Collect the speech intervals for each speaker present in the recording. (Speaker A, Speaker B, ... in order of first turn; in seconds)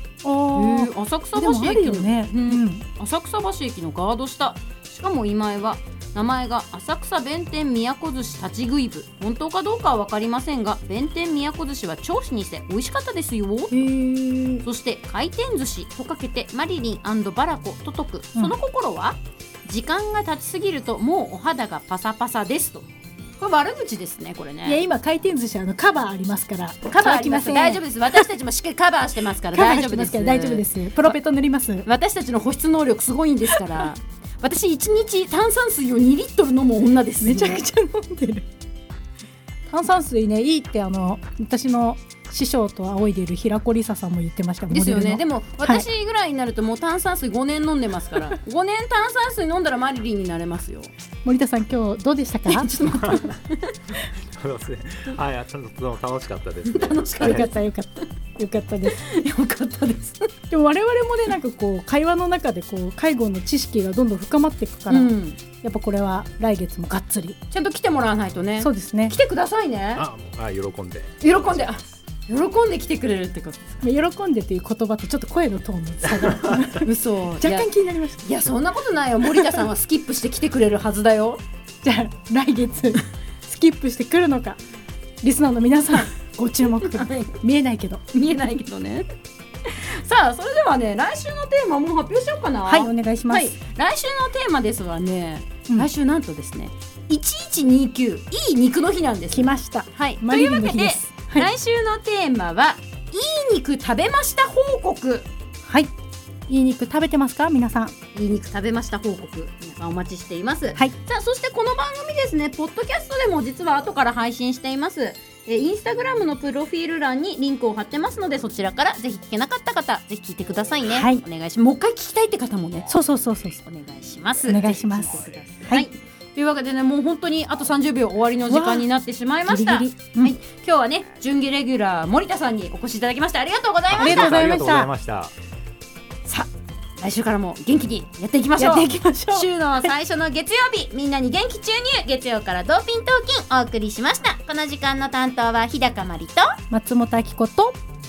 Speaker A: 0.2-2.9, 13.7-14.7, 24.6-28.3, 29.5-31.9, 33.5-33.9, 37.2-38.5, 39.7-45.9, 51.2-53.2, 57.2-59.0, 60.5-67.4, 68.6-69.2, 73.8-76.9, 77.4-78.3, 81.8-84.6, 85.2-88.0, 92.7-93.5, 99.3-101.5, 105.7-105.9, 106.5-108.0, 120.9-121.2, 122.9-123.6, 124.5-125.9, 128.5-128.9, 129.5-130.4, 133.9-134.9, 138.6-139.9, 146.7-147.8
Speaker B: 0.5-13.8, 14.6-22.9, 23.4-24.8, 26.9-31.2, 31.8-37.6, 44.7-50.9, 52.5-53.8, 56.6-57.6, 58.9-60.3, 64.9-65.4, 67.5-70.0, 71.2-73.8, 76.8-77.7, 78.2-81.4, 86.8-87.3, 88.1-89.1, 89.7-105.3, 108.1-122.9, 123.6-134.4, 136.2-146.6
Speaker C: 54.0-57.5, 70.0-71.9, 133.9-135.3